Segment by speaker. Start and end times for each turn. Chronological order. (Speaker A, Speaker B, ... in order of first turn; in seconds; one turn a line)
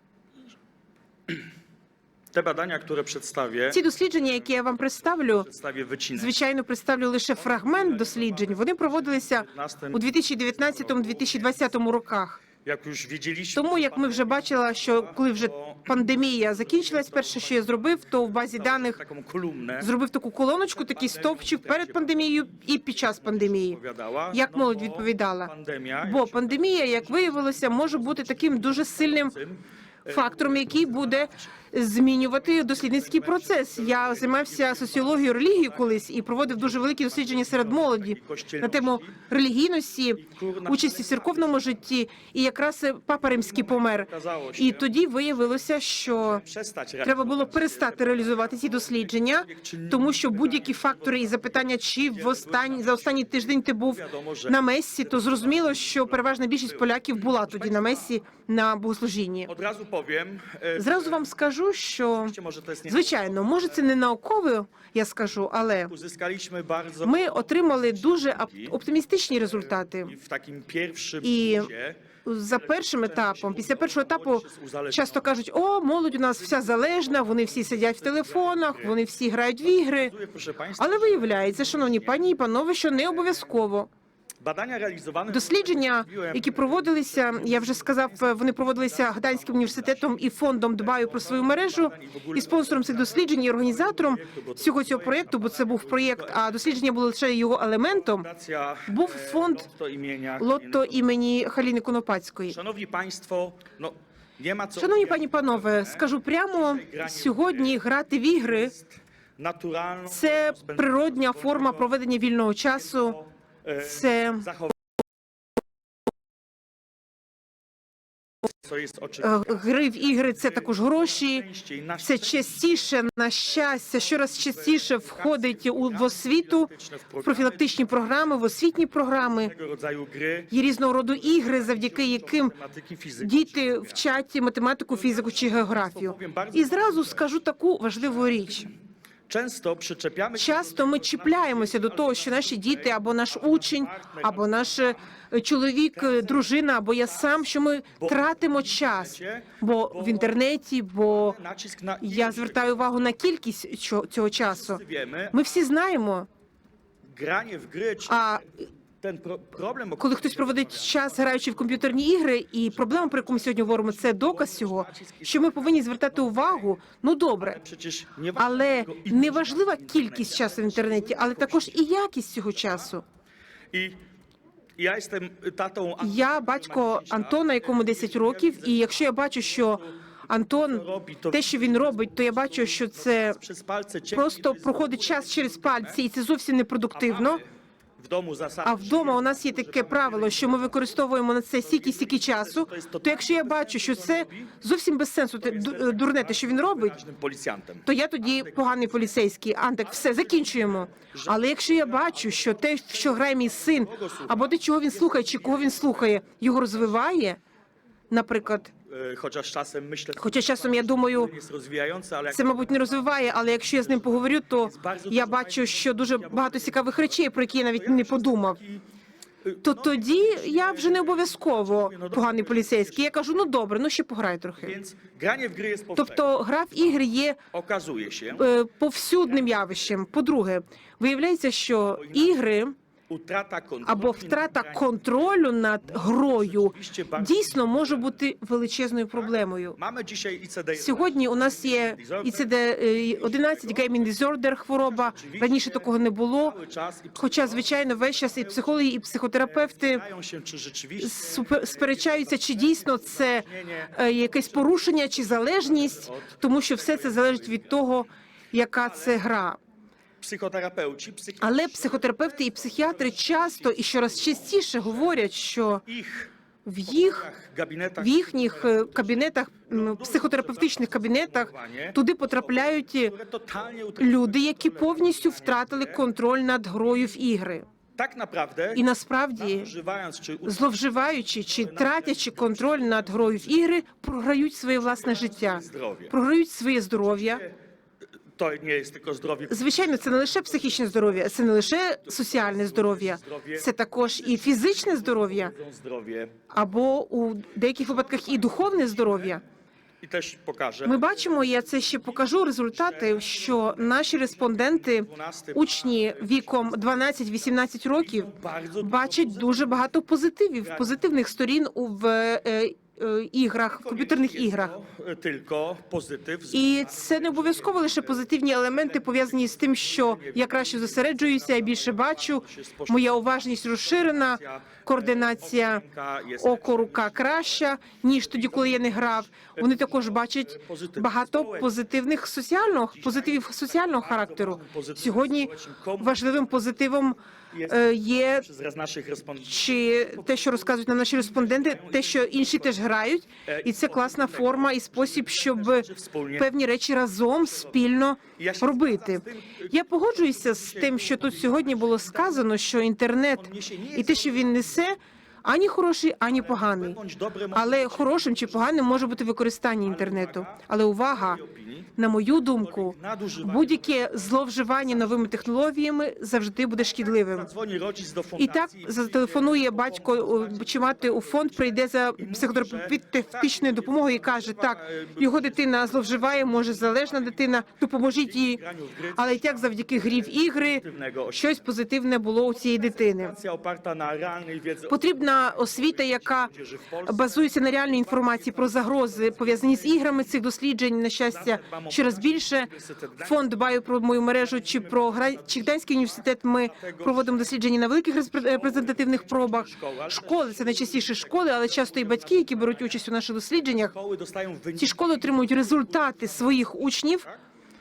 Speaker A: 2.3-3.8
Speaker B: 3.7-5.5
Speaker A: 5.4-6.3
Speaker B: 6.2-12.4
Speaker A: 7.4-11.6
Speaker A: 12.6-17.8
Speaker B: 13.5-19.0
Speaker A: 18.5-19.9
Speaker B: 19.8-23.8
Speaker A: 20.8-22.4
Speaker A: 23.2-31.4
Speaker B: 24.3-29.4
Speaker B: 30.1-46.4
Speaker A: 32.2-39.2
Speaker A: 40.2-41.6
Speaker A: 43.8-44.9
Speaker A: 46.2-58.1
Speaker B: 47.0-59.5
Speaker A: 59.5-61.2
Speaker B: 60.8-62.4
Speaker A: 62.2-63.8
Speaker B: 62.9-65.9
Speaker A: 65.9-68.8
Speaker B: 67.0-70.2
Speaker A: 70.1-72.0
Speaker B: 71.2-71.7
Speaker B: 72.2-80.1
Speaker A: 72.6-75.3
Speaker A: 76.6-79.0
Speaker A: 79.6-82.3
Speaker B: 80.8-83.9
Speaker A: 84.4-96.6
Speaker B: 85.3-98.3
Speaker A: 98.0-101.0
Speaker B: 98.9-99.7
Speaker B: 100.4-102.6
Speaker A: 102.5-107.8
Speaker B: 104.8-108.7
Speaker A: 108.3-111.9
Speaker B: 110.1-113.2
Speaker A: 112.8-114.7
Speaker B: 113.8-114.5
Speaker A: 118.6-122.8
Speaker B: 119.2-121.5
Speaker B: 122.0-126.7
Speaker A: 124.2-127.8
Speaker B: 127.2-129.5
Speaker A: 129.4-130.6
Speaker B: 130.5-132.5
Speaker A: 131.1-134.0
Speaker B: 133.2-138.7
Speaker A: 134.9-137.2
Speaker A: 139.3-145.0
Speaker B: 140.3-151.4
Speaker A: 145.9-146.5
Speaker A: 148.0-150.4
Speaker A: 151.1-152.8
Speaker B: 152.0-156.3
Speaker A: 154.5-155.4
Speaker A: 157.1-158.4
Speaker B: 158.1-158.5
Speaker A: 159.0-161.1
Speaker B: 160.0-167.6
Speaker A: 162.8-166.7
Speaker A: 167.4-171.8
Speaker B: 168.4-173.0
Speaker A: 173.7-174.0
Speaker A: 174.8-179.8
Speaker B: 176.0-183.4
Speaker A: 180.6-186.0
Speaker B: 184.1-187.4
Speaker A: 186.9-187.5
Speaker A: 188.0-190.8
Speaker B: 188.7-197.0
Speaker A: 191.6-194.5
Speaker A: 195.4-198.6
Speaker B: 197.9-207.4
Speaker A: 199.9-206.8
Speaker B: 208.1-208.7
Speaker A: 208.9-213.1
Speaker B: 210.2-211.3
Speaker B: 212.3-218.6
Speaker A: 213.7-217.2
Speaker A: 217.7-218.8
Speaker A: 219.4-223.1
Speaker B: 219.6-224.8
Speaker A: 224.6-226.3
Speaker B: 226.0-227.4
Speaker A: 227.5-228.5
Speaker B: 228.3-232.8
Speaker A: 231.8-232.4
Speaker A: 233.1-235.2
Speaker B: 233.8-239.8
Speaker A: 235.9-238.1
Speaker A: 239.8-242.5
Speaker B: 240.8-246.6
Speaker A: 243.0-244.1
Speaker A: 244.8-248.8
Speaker B: 247.2-250.0
Speaker A: 249.4-258.0
Speaker B: 251.0-259.6
Speaker A: 258.8-259.2
Speaker A: 260.2-265.2
Speaker B: 261.4-265.8
Speaker A: 265.9-266.3
Speaker B: 266.6-267.3
Speaker A: 266.9-276.0
Speaker B: 268.0-273.1
Speaker B: 274.0-277.7
Speaker A: 278.0-278.8
Speaker B: 278.7-279.7
Speaker A: 279.4-280.8
Speaker B: 280.4-287.4
Speaker A: 281.6-283.5
Speaker A: 284.9-286.1
Speaker A: 287.1-287.6
Speaker A: 288.4-290.0
Speaker B: 289.5-295.5
Speaker A: 290.7-291.0
Speaker A: 292.1-296.4
Speaker B: 296.5-299.4
Speaker A: 297.8-299.4
Speaker A: 300.0-307.1
Speaker B: 300.8-314.7
Speaker A: 308.0-309.9
Speaker A: 310.6-311.0
Speaker A: 313.7-327.6
Speaker B: 316.5-325.8
Speaker B: 326.4-338.5
Speaker A: 328.1-331.8
Speaker A: 332.9-336.4
Speaker A: 337.5-342.8
Speaker B: 339.4-345.9
Speaker A: 343.4-346.5
Speaker B: 346.4-357.0
Speaker A: 347.5-347.8
Speaker A: 348.4-352.4
Speaker A: 353.4-354.6
Speaker A: 356.3-359.0
Speaker B: 357.5-361.4
Speaker A: 359.8-361.9
Speaker B: 362.0-367.5
Speaker A: 362.6-365.3
Speaker A: 367.3-381.6
Speaker B: 368.4-378.6
Speaker B: 379.2-383.4
Speaker A: 383.0-390.2
Speaker B: 384.9-386.5
Speaker B: 387.1-403.9
Speaker A: 391.3-393.4
Speaker A: 394.2-397.5
Speaker A: 398.4-403.0
Speaker A: 403.9-407.4
Speaker B: 404.8-407.3